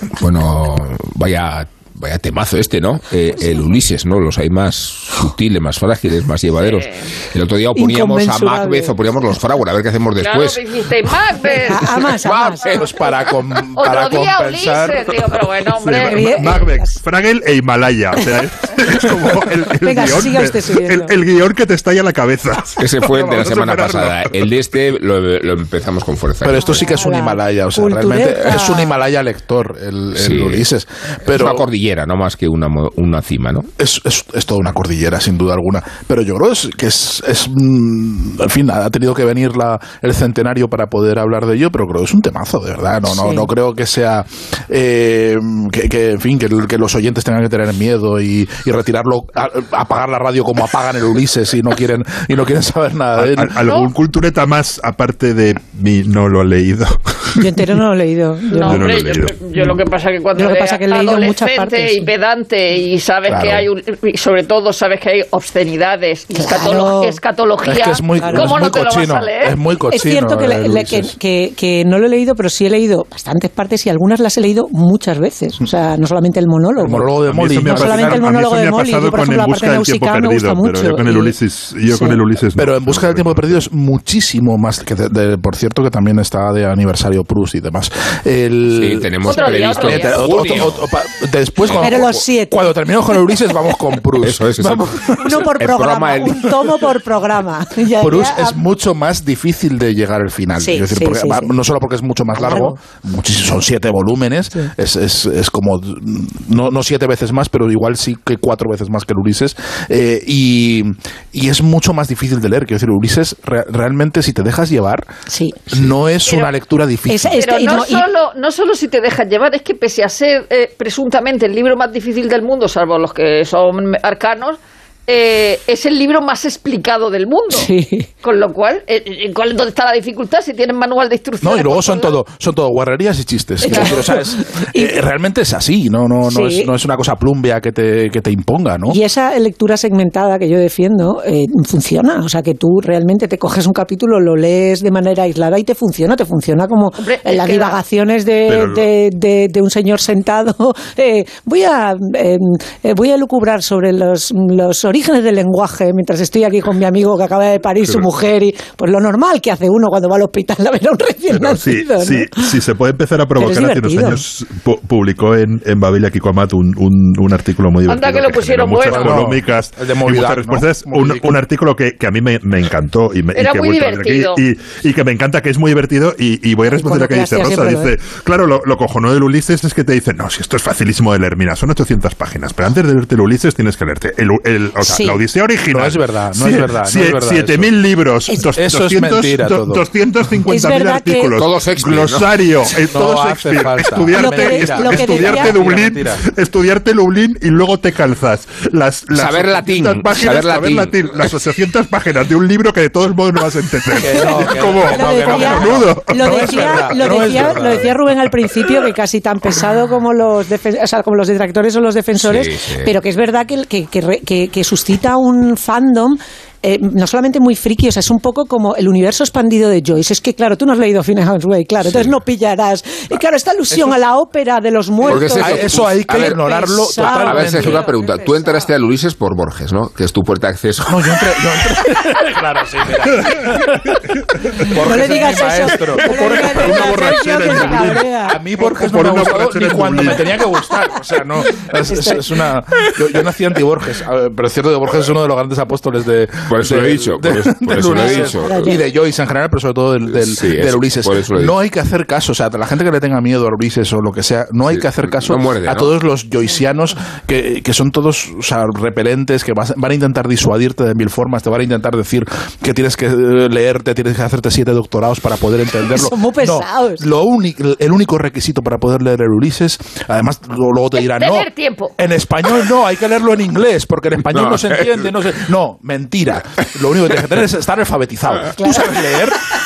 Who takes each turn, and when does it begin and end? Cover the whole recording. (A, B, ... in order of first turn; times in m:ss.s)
0:00.2-0:10.6 A
0:06.6-0:07.1 B
0:07.7-0:08.9 C
0:10.2-0:12.0 B
0:11.7-0:12.6 C
0:12.2-0:12.6 A
0:12.5-0:15.1 D
0:12.6-0:16.6 B
0:15.8-0:24.5 E
0:16.0-0:17.0 C
0:19.8-0:21.1 C
0:22.8-0:26.8 A
0:26.4-0:31.6 D
0:26.6-0:28.9 C
0:30.1-0:30.7 A
0:31.3-0:33.7 A
0:33.8-0:53.6 D
0:43.1-0:43.5 C
0:53.2-0:57.6 E
0:53.6-0:53.9 B
0:57.4-0:58.8 C
0:58.5-1:09.6 B
0:58.7-0:59.4 E
1:00.4-1:02.1 C
1:03.3-1:03.7 D
1:06.3-1:07.2 C
1:07.6-1:11.1 D
1:08.2-1:08.5 C
1:09.9-1:21.3 C
1:16.8-1:18.3 D
1:17.2-1:23.5 E
1:21.9-1:22.2 C
1:22.6-1:35.5 D
1:28.8-1:30.8 A
1:29.2-1:30.8 B
1:31.6-1:32.2 A
1:31.8-1:32.6 C
1:34.2-1:36.5 A
1:35.2-1:38.6 C
1:38.0-1:55.1 D
1:40.6-1:41.5 C
1:42.4-1:42.8 C
1:55.3-1:55.6 C
1:55.7-1:57.4 D
1:56.2-1:56.5 B
1:57.1-1:58.1 C
1:57.4-2:07.7 B
2:07.5-2:08.1 C
2:08.2-2:12.2 B
2:11.4-2:19.0 D
2:13.6-2:15.0 C
2:16.2-2:16.7 C
2:18.9-2:42.5 C
2:27.0-2:27.8 B
2:28.5-2:28.9 E
2:41.3-3:27.2 E
2:43.4-2:44.2 C
2:47.9-2:49.3 B
2:48.9-2:51.4 D
2:53.3-2:54.4 B
2:56.7-2:57.9 C
3:04.8-3:05.2 C
3:05.7-3:07.7 D
3:08.4-3:09.8 D
3:10.5-3:11.3 C
3:11.4-3:12.3 A
3:12.7-3:16.2 D
3:14.1-3:15.6 C
3:19.1-3:21.4 A
3:24.0-3:28.3 D
3:24.9-3:48.7 C
3:32.2-3:32.9 A
3:41.8-3:42.1 A
3:45.0-3:51.0 A
3:45.1-3:47.8 D
3:50.8-3:54.0 D
3:54.6-4:39.4 D
3:54.8-3:58.4 C
3:56.0-4:00.4 E
4:01.9-4:02.2 C
4:06.5-4:08.6 A
4:07.9-4:08.8 C
4:10.1-4:11.5 A
4:14.7-4:15.9 A
4:25.9-4:27.0 C
4:31.0-4:31.9 B
4:34.3-4:34.9 A
4:38.6-4:38.9 C